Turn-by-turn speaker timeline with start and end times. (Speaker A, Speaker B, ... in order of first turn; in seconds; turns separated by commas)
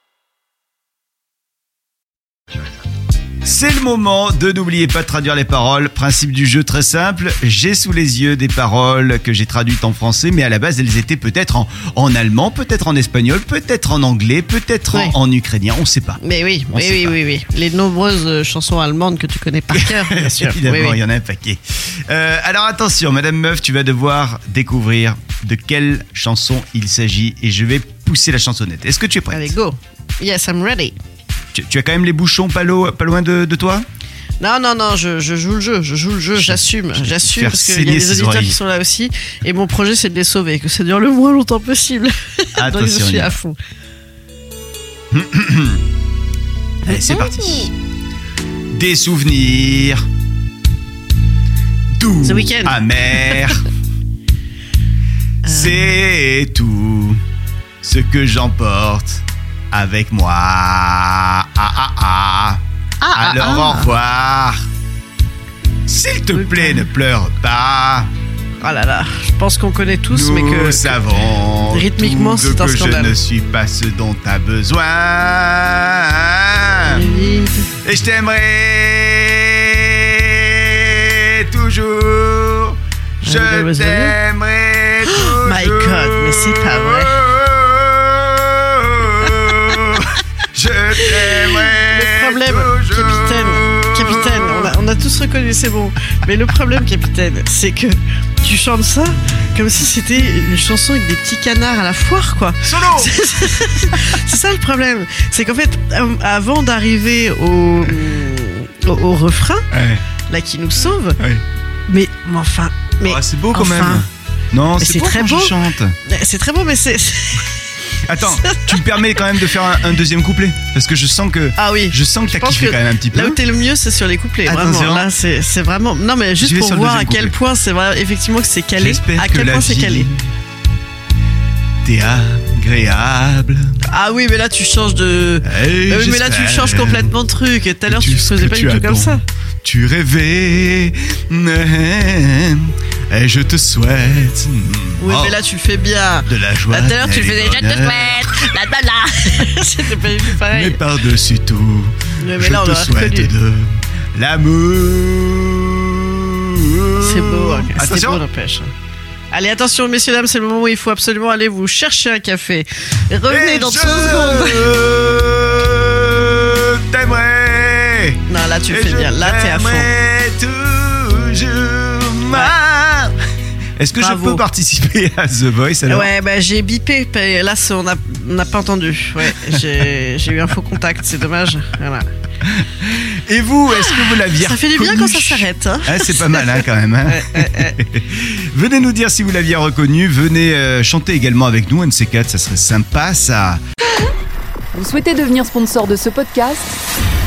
Speaker A: 3.4-16.2, Speaker B: 16.2-21.0, Speaker A: 16.7-17.2, Speaker A: 19.7-29.6, Speaker B: 29.3-31.0, Speaker A: 31.5-33.9, Speaker B: 34.4-43.6, Speaker A: 36.4-38.6, Speaker A: 42.6-43.4, Speaker A: 45.1-45.8, Speaker A: 46.9-47.7, Speaker B: 46.9-47.7, Speaker A: 48.7-50.0, Speaker A: 52.0-53.6, Speaker B: 52.2-53.5, Speaker A: 55.4-57.2, Speaker B: 55.5-55.8, Speaker A: 57.8-62.6, Speaker B: 63.0-63.9, Speaker A: 63.1-64.7, Speaker A: 65.9-68.1, Speaker B: 66.3-66.8, Speaker B: 68.6-71.0, Speaker A: 70.1-77.0, Speaker B: 71.7-73.2, Speaker B: 76.8-77.7, Speaker A: 77.8-94.7, Speaker B: 83.2-84.2, Speaker B: 85.1-87.3, Speaker B: 89.2-90.0, Speaker B: 91.0-109.7, Speaker A: 102.6-103.3, Speaker A: 109.7-110.0, Speaker B: 110.3-111.2, Speaker B: 111.9-114.1, Speaker A: 113.0-116.0, Speaker B: 114.8-117.6, Speaker A: 118.1-123.4, Speaker B: 118.1-118.8, Speaker B: 121.6-130.1, Speaker A: 124.5-125.1, Speaker A: 126.4-127.3, Speaker A: 128.8-130.2, Speaker A: 131.8-133.8, Speaker B: 133.8-139.2, Speaker A: 135.4-137.1, Speaker A: 137.9-145.4, Speaker B: 145.0-150.8, Speaker A: 146.3-148.5, Speaker A: 150.3-158.2, Speaker B: 152.2-153.3, Speaker B: 157.0-158.7, Speaker B: 159.3-164.8, Speaker A: 163.3-173.2, Speaker B: 168.3-169.9, Speaker B: 172.3-172.6, Speaker A: 173.8-176.1, Speaker B: 173.9-174.4, Speaker B: 175.9-182.1, Speaker A: 182.4-193.6, Speaker B: 183.7-187.8, Speaker C: 194.7-196.7